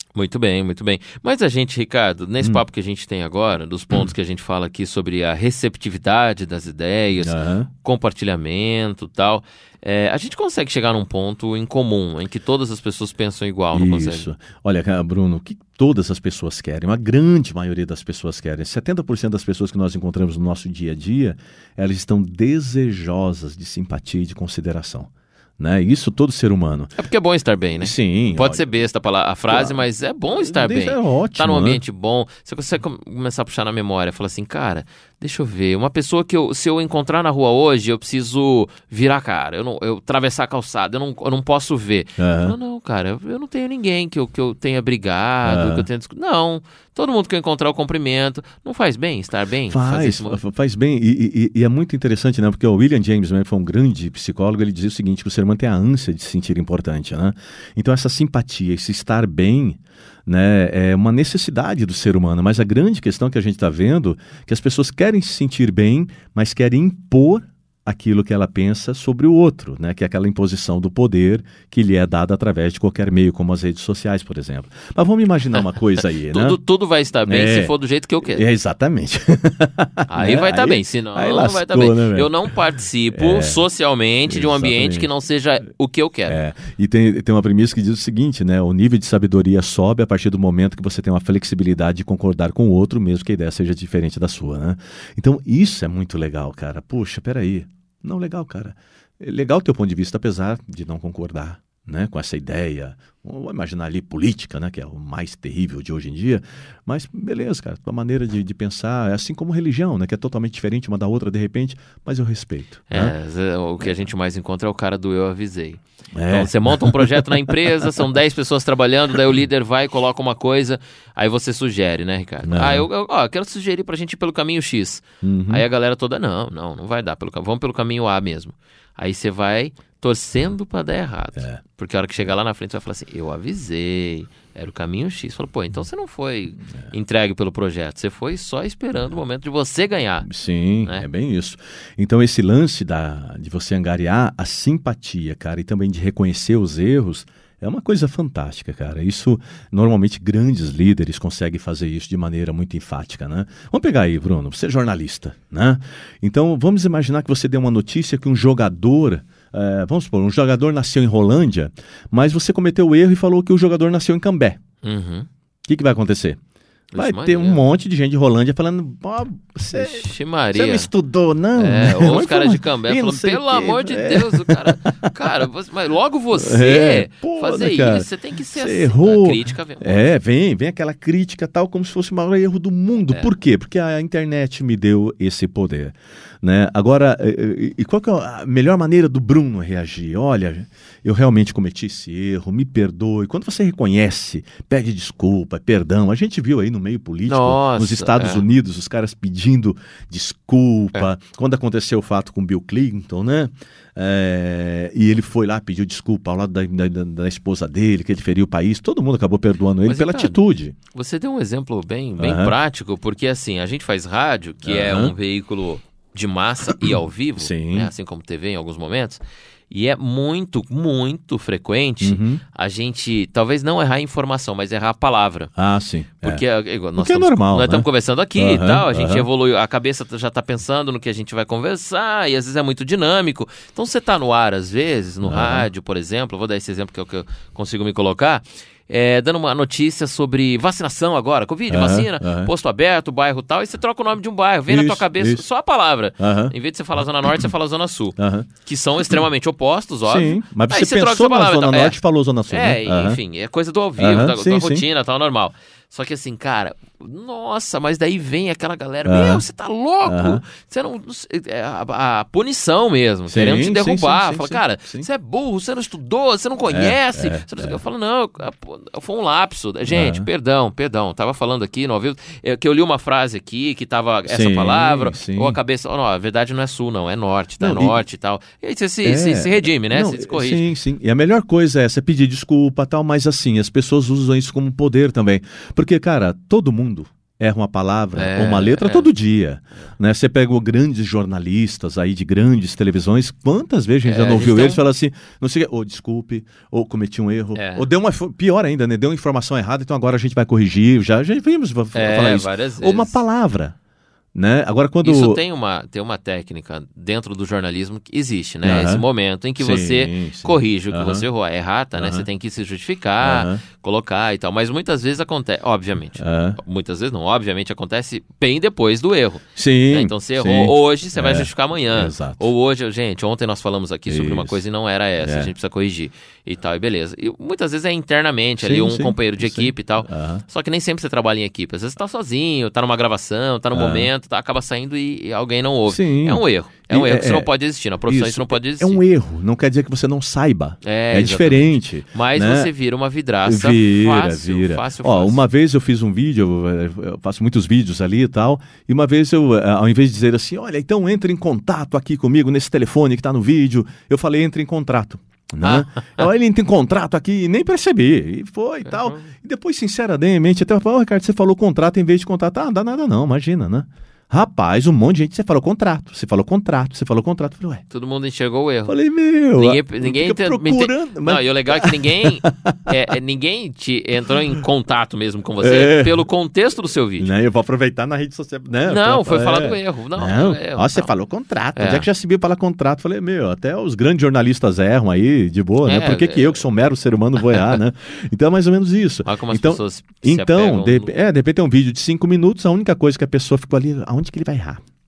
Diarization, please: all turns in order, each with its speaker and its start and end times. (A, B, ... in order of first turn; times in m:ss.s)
0:00.2-0:14.3 A
0:07.2-0:07.7 B
0:13.7-0:27.0 B
0:27.0-0:50.4 A
0:27.8-0:28.6 B
0:29.5-0:29.8 B
0:30.3-0:31.8 B
0:42.2-0:42.6 B
0:45.4-0:45.9 B
0:49.7-1:16.6 B
1:16.3-1:18.4 A
1:17.3-1:22.5 B
1:20.1-1:26.4 A
1:23.1-1:23.6 B
1:24.3-1:25.1 B
1:26.3-1:53.1 B
1:52.9-2:20.3 A
1:56.1-1:57.5 B
2:02.5-2:02.9 B
2:05.2-2:05.6 B
2:11.4-2:11.6 B
2:20.2-2:44.6 B
2:44.8-2:45.3 A
2:45.6-2:46.4 B
2:46.9-2:47.6 A
2:47.0-2:55.1 B
2:49.7-2:50.9 A
2:51.6-3:00.1 A
2:56.3-3:30.8 B
3:17.3-3:18.4 A
3:29.8-3:30.4 A
3:30.9-3:45.5 A
3:32.2-3:32.6 B
3:34.6-3:35.1 B
3:36.8-3:37.9 B
3:42.0-3:42.4 B
3:45.6-3:46.4 B
3:46.2-4:12.0 A
3:47.0-3:49.3 B
3:55.2-3:55.7 B
4:01.7-4:02.5 B
4:04.7-4:05.4 B
4:06.2-4:06.6 B
4:07.2-4:07.5 B
4:08.2-4:08.5 B
4:10.0-4:13.2 B
4:12.5-4:40.6 A
4:14.0-4:14.9 B
4:19.0-4:19.4 B
4:20.1-4:20.4 B
4:23.3-4:25.1 B
4:26.7-4:27.8 B
4:29.9-4:30.3 B
4:34.3-4:35.6 B
4:37.6-4:38.0 B
4:39.0-5:03.8 B
4:48.2-4:49.1 A
4:54.0-4:54.8 A
4:57.6-4:57.9 A
5:01.9-5:03.2 A
5:04.3-5:05.4 B
5:05.0-5:39.0 A
5:08.6-5:09.0 B
5:09.6-5:11.3 B
5:12.0-5:12.3 B
5:13.2-5:13.6 B
5:16.2-5:16.6 B
5:19.6-5:22.5 B
5:24.1-5:24.6 B
5:25.2-5:25.5 B
5:28.6-5:30.4 B
5:33.7-5:34.1 B
5:35.9-5:37.5 B
5:38.1-5:42.7 B
5:40.8-5:45.4 A
5:43.4-6:07.8 B
5:55.6-5:56.2 A
5:58.9-5:59.3 A
6:07.9-6:09.0 A
6:08.9-6:12.9 B
6:09.6-6:17.3 A
6:15.6-6:16.2 B
6:17.2-6:34.8 B
6:18.8-6:21.1 A
6:21.8-6:22.1 A
6:25.8-6:26.6 A
6:29.2-6:31.1 A